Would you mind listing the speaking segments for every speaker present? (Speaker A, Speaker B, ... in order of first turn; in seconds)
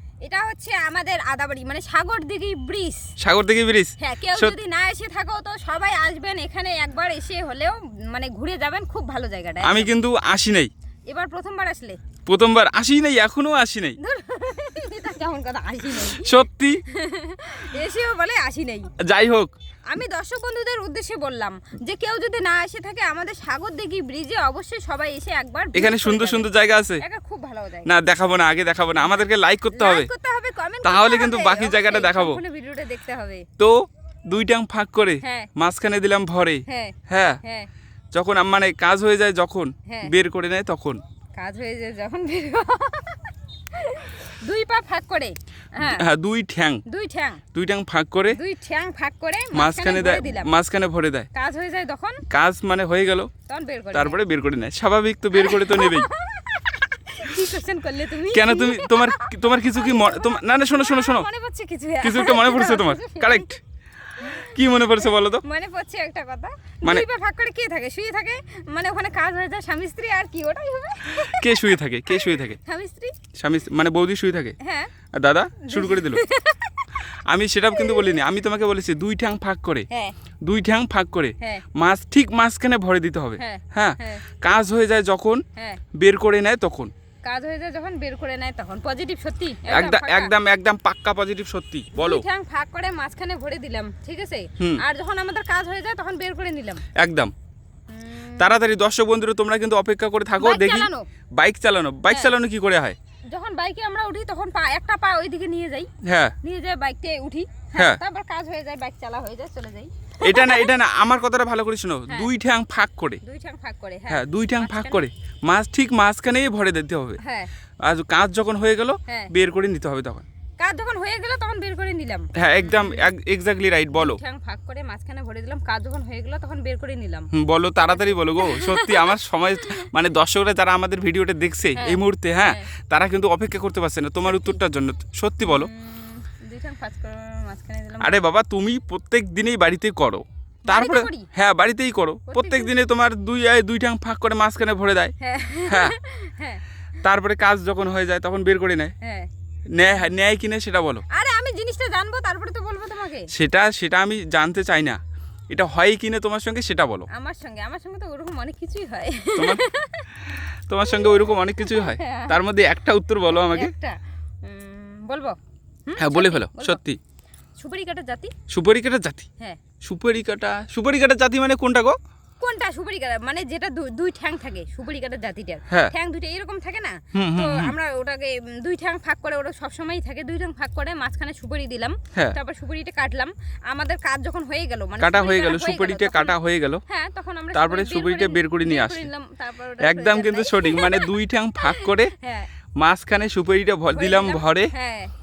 Speaker A: 0.2-3.1, 4.0-9.9, 11.1-12.0, 14.0-18.9, 19.9-27.9, 29.7-33.5, 35.2-35.5, 36.7-37.7, 39.9-40.1, 41.4-46.0, 46.9-47.4, 48.3-50.5, 51.3-52.2, 53.5-54.2, 55.3-63.5, 64.1-73.2, 74.6-74.9, 75.7-76.9, 77.7-78.2, 81.4-81.7, 83.4-84.2, 85.6-85.8, 87.2-90.3, 92.0-96.8, 97.9-98.5, 100.4-101.1, 103.3-105.9, 106.4-110.7, 113.2-115.1, 117.2-117.5, 119.1-119.3, 120.6-123.1, 124.0-127.3, 127.8-129.2, 131.8-132.7, 134.2-134.6, 135.4-138.2, 140.7-141.3, 142.3-142.8, 145.2-146.6, 149.0-149.3, 151.1-153.3, 157.1-160.2, 160.8-162.4, 163.3-166.8, 167.6-168.3, 172.4-192.5, 193.9-195.1
Speaker B: 3.2-4.5, 9.6-10.7, 12.3-14.0, 16.2-16.8, 19.0-19.5, 25.7-27.0, 27.9-30.1, 30.8-32.4, 33.6-37.4, 38.1-41.0, 45.8-46.8, 47.5-48.4, 49.5-51.3, 52.3-53.3, 53.9-56.1, 58.3-61.3, 62.0-63.6, 64.2-65.4, 71.2-72.6, 73.4-74.6, 75.1-76.2, 77.3-79.9, 80.5-85.4, 85.9-86.9, 89.7-92.2, 97.0-97.3, 98.4-103.0, 106.0-106.3, 110.2-113.2, 114.1-117.2, 117.8-120.2, 122.3-124.2, 127.3-135.7, 138.0-145.1, 145.7-145.9, 147.0-148.9, 149.8-151.1, 153.3-157.1, 159.4-159.6, 160.7-163.7, 166.0-167.0, 168.5-169.3, 169.8-172.0, 177.1-177.7, 185.0-186.8, 187.5-189.1, 189.8-192.1, 192.8-194.7